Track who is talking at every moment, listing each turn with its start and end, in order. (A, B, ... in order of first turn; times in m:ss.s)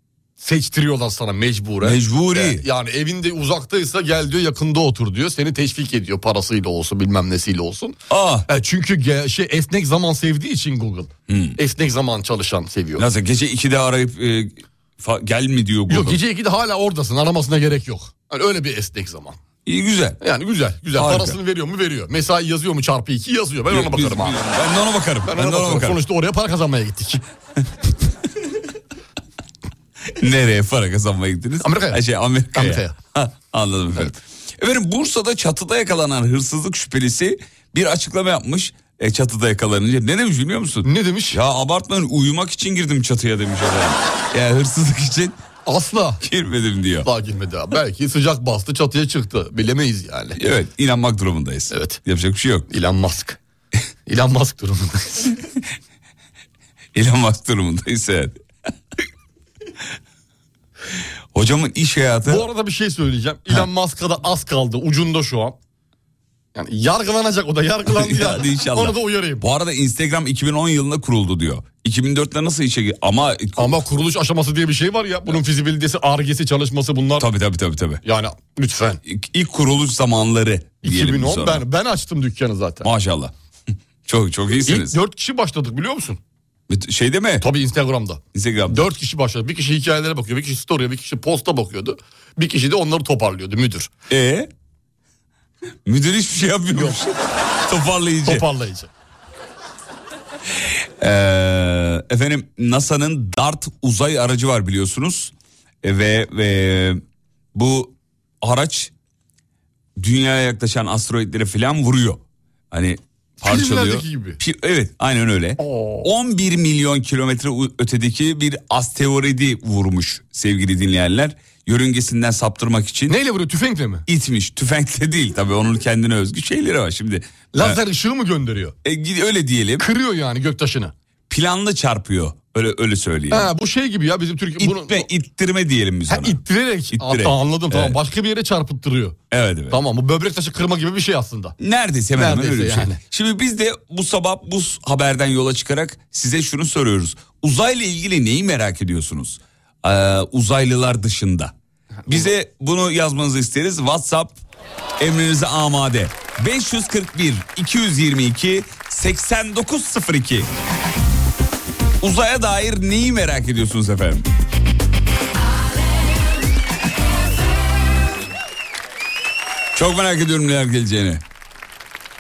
0:00.4-0:08.0 A
0:01.8-0:02.6 B
0:08.1-0:08.5 B
0:08.5-0:13.0 A
0:11.3-0:11.6 B
0:13.0-0:16.2 B
0:15.9-0:19.4 A
0:19.7-0:20.2 B
0:20.2-0:24.4 A
0:21.0-0:21.4 B
0:23.7-0:26.0 B
0:25.2-0:27.2 A
0:30.2-0:45.4 B
0:31.6-0:32.0 A
0:32.5-0:32.9 A
0:40.8-0:41.4 A
0:45.7-0:46.2 A
0:46.2-0:47.1 B
0:47.0-0:50.4 A
0:50.4-0:52.7 B
0:51.7-0:52.0 A
0:52.7-0:53.4 A
0:54.1-0:55.3 A
0:56.9-0:58.4 B
1:01.3-1:02.5 B
1:02.3-1:05.6 A
1:06.6-1:09.4 A
1:07.9-1:13.7 B
1:13.6-1:17.3 A
1:17.2-1:18.0 B
1:18.0-1:19.0 A
1:19.1-1:21.6 B
1:20.8-1:22.9 A
1:22.8-1:23.3 B
1:24.1-1:25.0 B
1:24.6-1:26.2 A
1:26.7-1:27.5 B
1:27.4-1:33.9 A
1:28.3-1:28.8 B
1:34.1-1:34.5 B
1:35.9-1:38.4 B
1:36.7-1:37.0 A
1:38.2-1:38.9 A
1:40.6-1:45.3 B
1:45.8-1:47.0 B
1:47.6-1:48.9 B
1:50.0-2:03.2 B
1:53.4-1:54.4 A
1:55.6-1:56.1 A
2:03.1-2:04.0 A
2:04.1-2:07.8 B
2:07.5-2:08.8 A
2:08.8-2:09.8 B
2:09.8-2:10.9 A
2:11.3-2:13.5 B
2:13.3-2:15.1 A
2:14.6-2:16.4 B
2:16.1-2:19.2 A
2:16.9-2:18.0 B
2:19.3-2:19.8 B
2:19.7-2:21.6 A
2:21.6-2:31.5 B
2:22.2-2:23.0 A
2:32.1-2:34.4 B
2:35.0-2:40.5 B
2:42.0-2:44.3 B
2:49.8-2:51.2 B